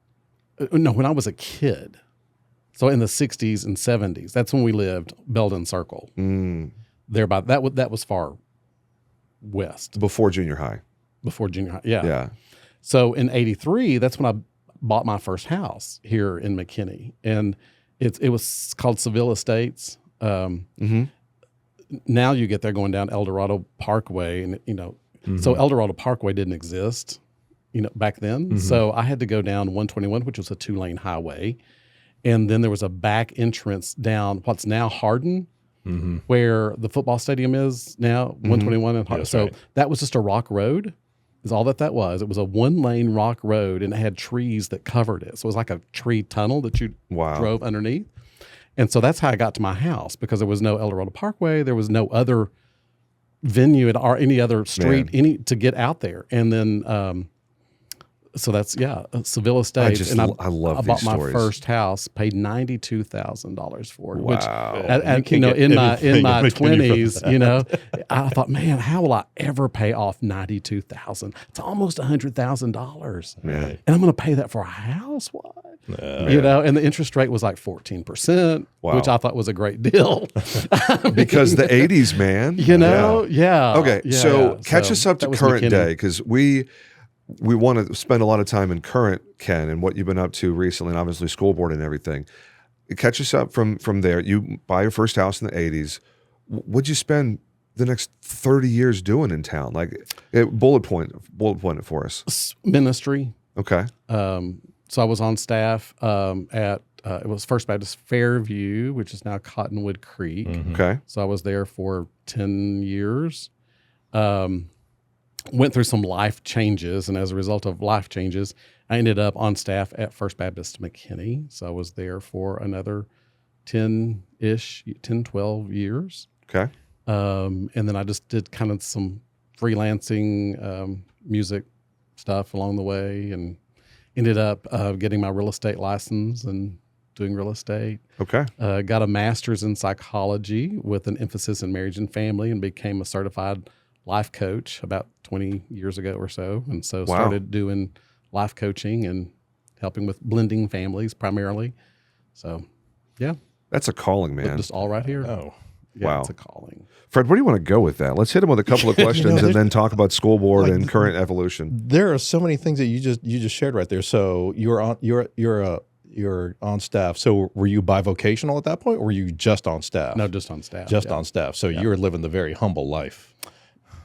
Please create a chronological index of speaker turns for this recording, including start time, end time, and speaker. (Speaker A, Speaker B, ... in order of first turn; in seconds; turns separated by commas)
Speaker A: 0.6-2.0, Speaker A: 2.7-6.1, Speaker B: 6.2-6.7, Speaker A: 7.1-8.4, Speaker A: 9.4-10.0, Speaker B: 9.9-10.8, Speaker A: 11.2-12.2, Speaker B: 12.0-12.3, Speaker A: 12.8-20.7, Speaker B: 20.8-21.1, Speaker A: 21.9-27.2, Speaker C: 25.3-25.6, Speaker A: 27.7-31.6, Speaker C: 28.5-28.8, Speaker A: 32.2-35.5, Speaker C: 35.9-36.2, Speaker A: 36.3-48.1, Speaker B: 38.4-38.8, Speaker C: 39.1-39.5, Speaker B: 47.1-47.5, Speaker A: 48.8-52.5, Speaker A: 53.4-57.3, Speaker B: 54.7-55.1, Speaker A: 58.3-81.9, Speaker B: 59.8-61.5, Speaker B: 64.1-65.0, Speaker C: 64.7-67.6, Speaker B: 73.4-73.8, Speaker C: 73.4-73.8, Speaker C: 75.9-76.5, Speaker B: 76.2-76.5, Speaker B: 78.8-79.1, Speaker B: 81.1-86.7, Speaker A: 82.5-85.9, Speaker C: 82.7-83.2, Speaker B: 87.3-92.3, Speaker B: 92.9-102.2, Speaker A: 102.2-103.3, Speaker B: 103.5-103.9, Speaker A: 104.1-113.5, Speaker C: 110.5-110.8, Speaker B: 110.7-111.0, Speaker A: 114.1-114.7, Speaker A: 115.5-123.1, Speaker A: 123.7-126.3, Speaker A: 127.1-131.6, Speaker A: 132.2-133.6, Speaker A: 134.2-138.0, Speaker B: 138.2-138.5, Speaker A: 138.6-151.7, Speaker B: 147.1-147.4, Speaker A: 152.3-152.6, Speaker B: 153.7-154.7, Speaker A: 154.4-155.3, Speaker C: 155.2-155.5, Speaker A: 155.9-156.9, Speaker B: 156.0-156.3, Speaker B: 157.1-161.7, Speaker C: 158.7-159.8, Speaker C: 160.6-161.1, Speaker C: 161.7-170.3, Speaker A: 170.1-171.2, Speaker C: 170.9-173.3